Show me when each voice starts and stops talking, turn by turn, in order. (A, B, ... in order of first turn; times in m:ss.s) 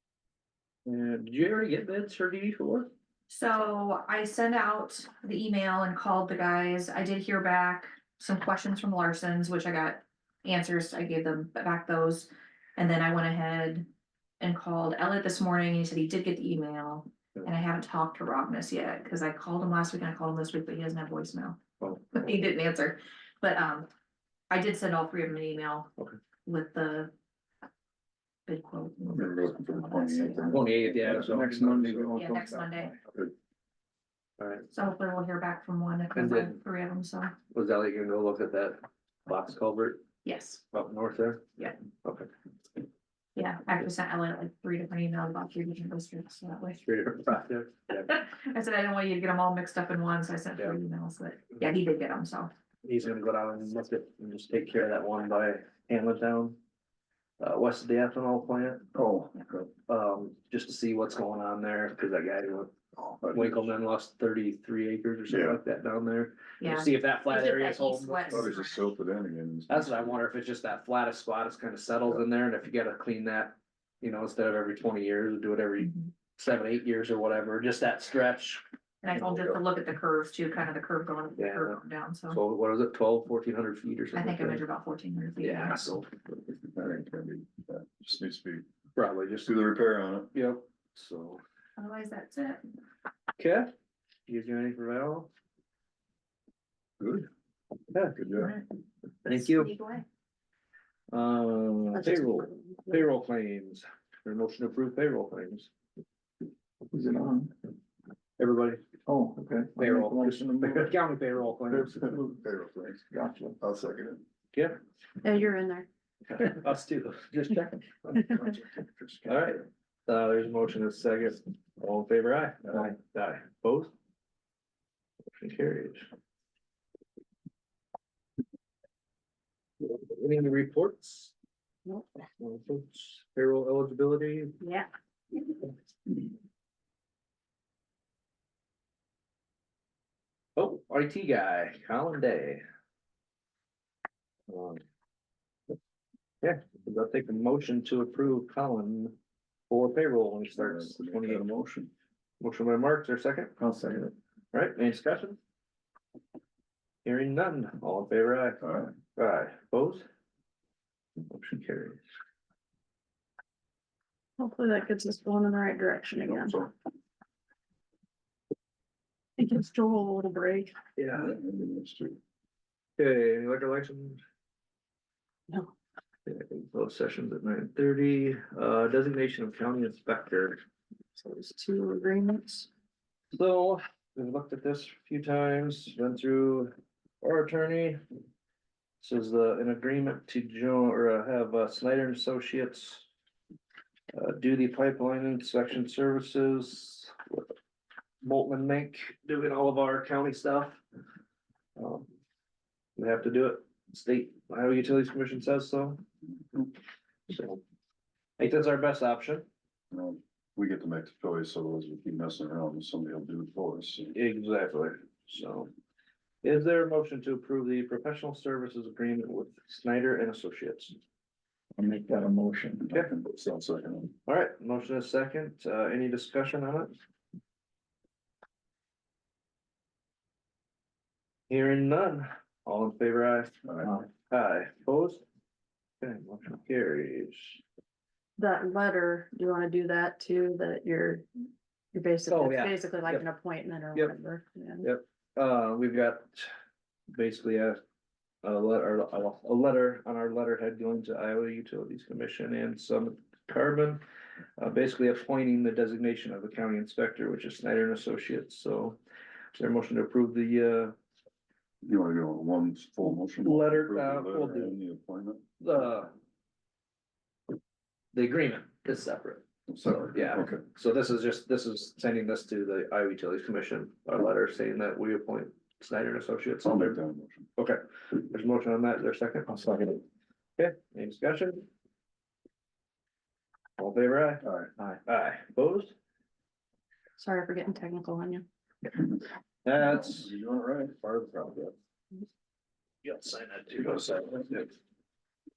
0:00.8-0:02.9 A
0:03.3-0:13.9 B
0:14.4-0:21.6 B
0:21.8-0:22.2 A
0:22.1-0:23.9 B
0:24.5-0:25.9 B
0:26.4-0:27.1 B
0:28.5-0:30.8 B
0:29.1-0:32.2 C
0:30.5-0:31.8 A
0:31.2-0:32.6 D
0:32.2-0:32.9 B
0:34.4-0:34.7 A
0:34.7-0:37.3 B
0:36.1-0:36.6 A
0:37.5-0:40.0 A
0:40.2-0:40.6 B
0:40.7-0:41.5 A
0:42.0-0:42.3 A
0:43.4-0:46.8 B
0:46.8-0:48.1 A
0:48.0-0:52.5 B
0:52.8-0:56.6 A
0:57.4-0:58.8 A
0:58.9-0:59.7 C
0:59.9-1:02.7 A
1:03.0-1:03.7 C
1:03.3-1:08.6 A
1:05.3-1:05.6 C
1:06.6-1:08.9 B
1:08.3-1:10.2 C
1:09.7-1:19.6 A
1:15.8-1:16.1 B
1:19.0-1:22.4 B
1:21.4-1:24.6 A
1:24.1-1:25.8 B
1:25.4-1:26.1 A
1:26.3-1:28.6 C
1:29.0-1:29.5 A
1:29.4-1:30.3 C
1:30.3-1:31.4 A
1:31.8-1:32.6 B
1:33.4-1:33.7 A
1:34.3-1:35.3 A
1:37.0-1:37.3 C
1:37.9-1:38.3 A
1:38.2-1:38.5 C
1:38.3-1:38.6 B
1:39.2-1:39.8 A
1:39.5-1:40.0 B
1:41.1-1:45.7 A
1:41.9-1:43.1 E
1:46.9-1:47.5 D
1:48.4-1:48.8 A
1:49.1-1:50.9 D
1:49.8-1:52.1 A
1:51.7-1:54.2 C
1:53.1-1:53.6 D
1:54.5-1:54.8 A
1:55.2-1:55.9 E
1:56.2-1:58.6 A
1:58.8-1:59.3 C
1:59.2-2:03.9 A
2:05.3-2:06.0 A
2:09.8-2:11.3 A
2:12.4-2:14.6 A
2:14.6-2:14.9 E
2:20.6-2:22.6 A
2:24.5-2:24.8 A
2:26.4-2:29.2 A
2:29.7-2:31.5 A
2:30.5-2:31.9 C
2:32.4-2:33.5 A
2:33.6-2:33.9 D
2:34.5-2:35.4 A
2:37.0-2:38.6 A
2:38.6-2:38.9 C
2:39.1-2:40.0 A
2:41.3-2:42.0 A
2:44.4-2:46.6 E
2:46.2-2:46.7 C
2:49.4-2:50.7 E
2:51.0-2:51.4 A
2:51.1-2:52.2 C
2:53.0-2:54.2 A
2:55.5-2:55.7 E
2:56.2-3:00.6 A
3:01.1-3:02.7 E
3:03.3-3:08.0 A
3:09.0-3:13.0 A
3:14.1-3:17.5 A
3:18.2-3:20.8 A
3:21.8-3:22.1 A
3:23.0-3:26.0 A
3:27.3-3:27.6 A
3:28.4-3:29.5 A
3:29.9-3:34.2 C
3:34.1-3:35.7 A
3:36.4-3:41.0 A
3:41.8-3:42.9 D
3:42.8-3:44.1 C
3:44.2-3:46.9 A
3:51.5-3:55.2 A
3:53.6-3:53.9 C
3:56.0-3:57.6 A
3:58.4-4:01.2 E
4:01.9-4:04.9 E
4:02.3-4:03.2 A
4:04.8-4:06.5 A
4:07.1-4:07.8 A
4:08.4-4:14.0 A
4:14.6-4:19.0 A
4:19.5-4:20.9 A
4:21.8-4:25.4 C
4:23.0-4:24.8 A
4:25.6-4:26.1 A
4:28.1-4:37.0 A
4:29.7-4:30.6 C
4:36.6-4:37.5 C
4:37.6-4:39.6 A
4:39.6-4:40.0 D
4:40.6-4:41.7 A
4:43.8-4:44.4 A
4:44.4-4:44.7 C
4:45.0-4:45.9 A
4:47.2-4:48.4 E
4:49.6-4:50.3 A
4:49.8-4:51.7 C
4:53.0-4:54.7 A